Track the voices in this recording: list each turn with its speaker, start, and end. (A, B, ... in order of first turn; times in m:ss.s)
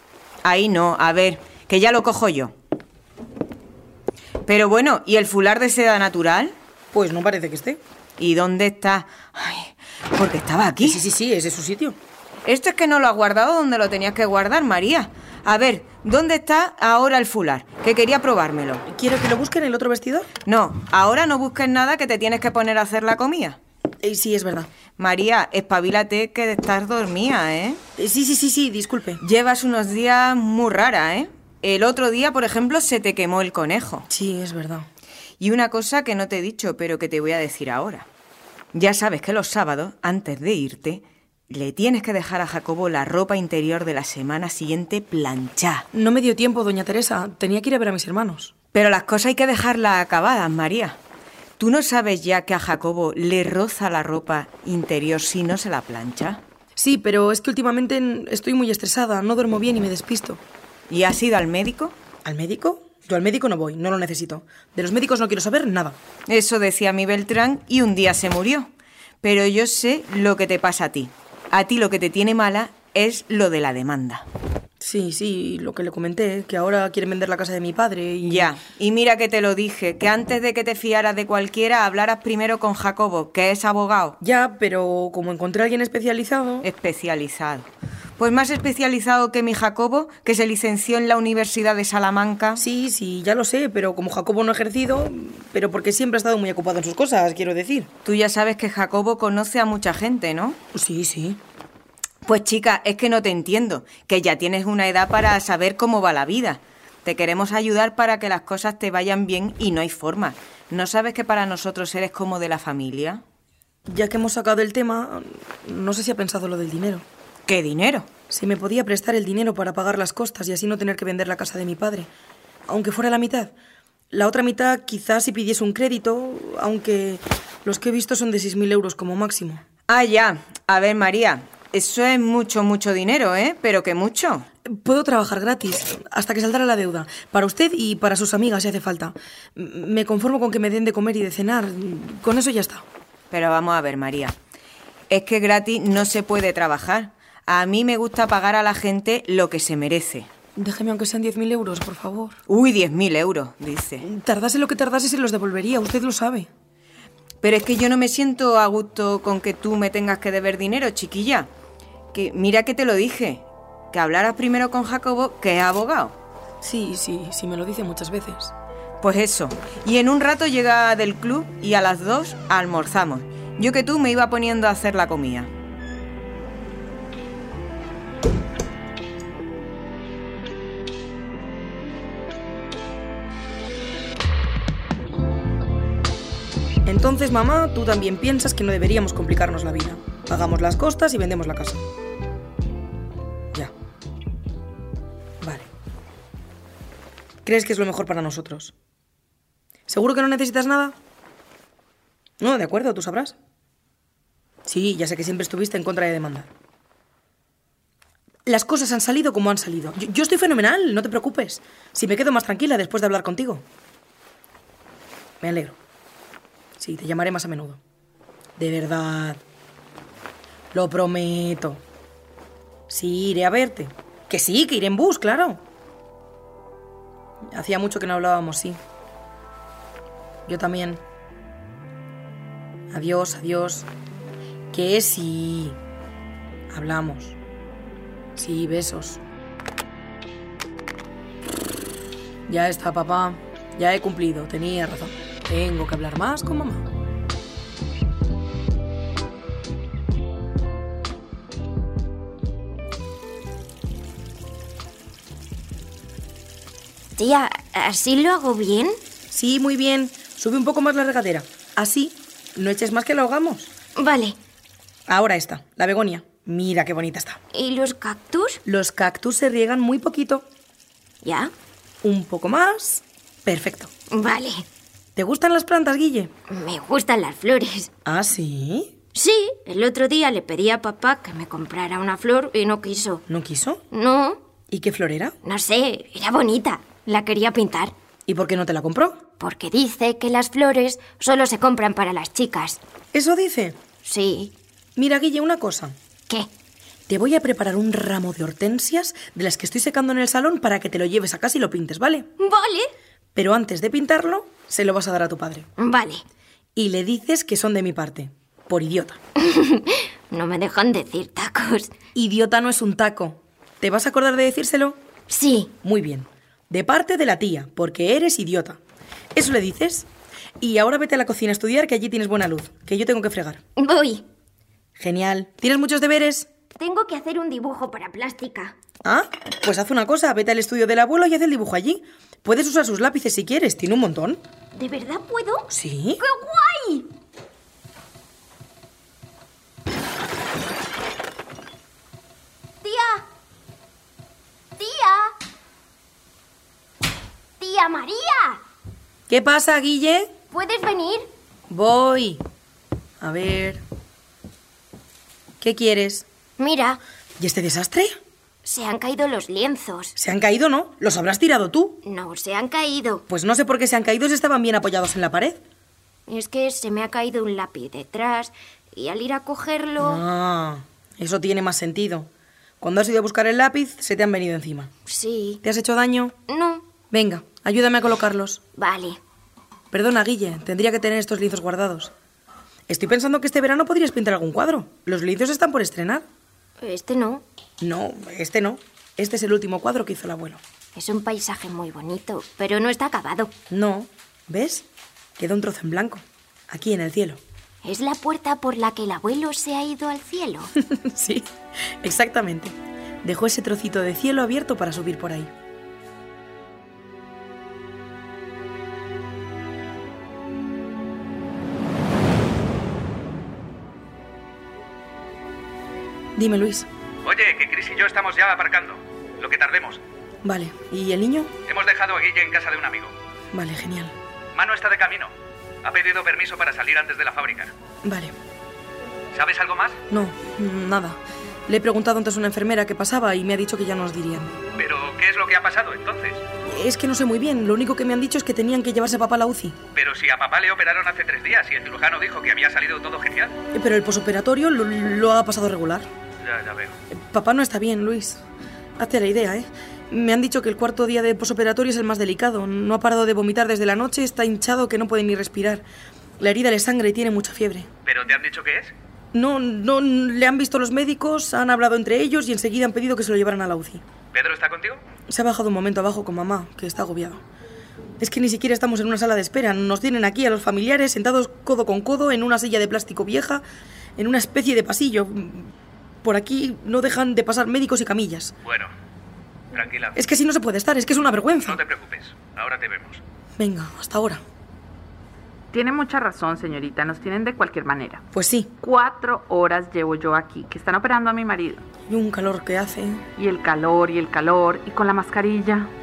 0:00.4-0:02.5 A
0:04.4-0:06.5 A
0:06.9-0:07.8 B
0:08.2-0:11.0 A
0:10.8-0:12.0 B
0:12.4-0:18.8 A
0:18.8-0:20.3 B
0:20.4-0:23.6 A
0:24.0-0:24.7 B
0:25.0-0:27.8 A
0:28.0-0:29.2 B
0:29.2-0:34.0 A
0:34.1-0:34.9 B
0:35.4-0:38.1 A
0:38.7-0:45.8 A
0:45.9-0:48.5 B
0:48.7-0:51.0 A
0:51.6-0:56.4 A
0:56.8-1:00.4 B
1:00.9-1:01.9 A
1:02.2-1:06.0 B
1:06.3-1:08.7 A
1:09.2-1:14.3 A
1:14.8-1:18.5 B
1:18.2-1:24.2 A
1:24.2-1:26.7 B
1:26.6-1:27.7 A
1:28.2-1:32.6 A
1:32.6-1:37.9 B
1:38.0-1:40.6 A
1:40.7-1:41.4 B
1:42.2-1:53.2 A
1:53.9-1:57.0 B
1:57.5-1:58.1 A
1:58.3-2:02.1 B
2:02.7-2:03.5 B
2:04.1-2:09.6 B
2:09.9-2:14.4 A
2:14.6-2:22.8 B
2:23.3-2:24.4 A
2:25.1-2:30.3 A
2:30.6-2:32.4 B
2:32.5-2:34.0 A
2:34.0-2:36.5 B
2:37.4-2:41.5 A
2:42.1-2:46.1 A
2:46.6-2:48.5 B
2:49.0-2:55.5 A
3:06.8-3:11.8 B
3:15.4-3:15.7 B
3:17.4-3:18.7 B
3:19.9-3:21.0 B
3:22.4-3:23.4 B
3:24.6-3:26.5 B
3:28.4-3:33.6 B
3:35.4-3:35.8 B
3:36.8-3:37.8 B
3:38.6-3:39.4 B
3:40.7-3:41.8 B
3:42.9-3:45.6 B
3:47.5-3:48.8 B
3:50.5-3:51.0 B
3:52.9-3:53.9 B
3:54.7-3:55.8 B
3:56.7-3:57.4 B
3:58.4-3:59.2 B
4:02.5-4:06.8 B
4:17.2-4:19.0 C
4:19.3-4:23.7 B
4:24.0-4:24.4 C
4:25.1-4:27.4 B
4:27.5-4:28.6 C
4:28.6-4:30.4 B
4:31.2-4:31.5 C
4:32.0-4:33.9 B
4:34.1-4:34.6 C
4:35.2-4:36.3 B
4:36.5-4:37.9 C
4:38.0-4:38.9 B
4:39.1-4:43.2 C
4:43.3-4:43.8 B
4:43.9-4:44.4 C
4:44.7-4:45.4 B
4:45.4-4:47.9 C
4:48.3-4:49.2 B
4:49.4-4:52.8 C
4:53.1-4:53.8 B
4:54.0-4:54.5 C
4:55.0-4:56.0 B
4:57.1-5:02.3 B
5:02.4-5:02.9 C
5:03.3-5:05.7 B
5:05.8-5:06.2 C
5:06.8-5:09.2 B
5:09.4-5:11.9 C
5:12.1-5:15.0 B
5:15.3-5:15.7 C
5:15.8-5:18.8 B
5:19.3-5:20.1 B
5:20.6-5:23.6 B
5:23.8-5:24.2 C
5:25.0-5:26.5 B
5:26.8-5:28.7 C
5:29.0-5:34.4 B
5:34.7-5:37.1 C
5:35.7-5:36.2 B
5:42.8-5:43.2 C
5:44.8-5:45.3 C
5:47.6-5:48.6 C
5:49.3-5:50.3 B
5:50.5-5:51.3 C
5:51.7-5:52.4 B
5:53.2-5:53.8 B
5:55.6-5:56.2 B
5:56.6-5:57.0 C
5:57.4-5:58.2 B
5:58.6-6:00.1 C
6:00.2-6:02.0 B
6:02.0-6:03.2 C
6:03.3-6:05.6 B
6:06.3-6:10.2 C
6:10.0-6:12.3 B
6:12.8-6:14.9 B
6:15.0-6:15.6 C
6:15.6-6:16.4 B
6:16.5-6:16.8 C
6:17.1-6:18.6 B
6:18.7-6:19.2 C
6:19.9-6:22.1 B
6:22.9-6:26.2 B
6:26.8-6:27.4 C
6:27.8-6:30.6 B
6:30.9-6:33.5 C
6:33.7-6:34.8 B
6:35.4-6:37.4 B
6:37.8-6:40.7 C
6:40.9-6:45.5 B
6:56.4-6:56.9 B
6:57.2-7:00.0 D
7:00.4-7:01.5 B
7:01.7-7:03.1 D
7:03.5-7:04.1 B
7:04.5-7:05.3 D
7:05.8-7:07.7 D
7:08.0-7:08.3 B
7:09.3-7:10.0 D
7:10.1-7:14.6 B
7:14.8-7:16.4 D
7:16.6-7:19.8 B
7:19.9-7:23.5 D
7:23.7-7:26.1 B
7:26.4-7:26.9 D
7:27.1-7:28.4 B
7:29.0-7:35.8 B
7:36.4-7:37.9 B
7:38.0-7:38.9 D
7:39.3-7:44.0 B
7:44.3-7:45.0 D
7:45.3-7:47.4 B
7:48.2-7:53.6 B
7:54.2-7:55.7 B
7:56.2-7:58.5 B
7:58.6-7:58.9 D
7:59.7-8:00.2 D
8:00.1-8:01.8 B
8:01.6-8:03.2 D
8:03.6-8:04.4 B
8:05.7-8:08.2 E
8:08.3-8:08.7 B
8:08.8-8:11.8 E
8:12.1-8:13.2 B
8:13.4-8:15.9 E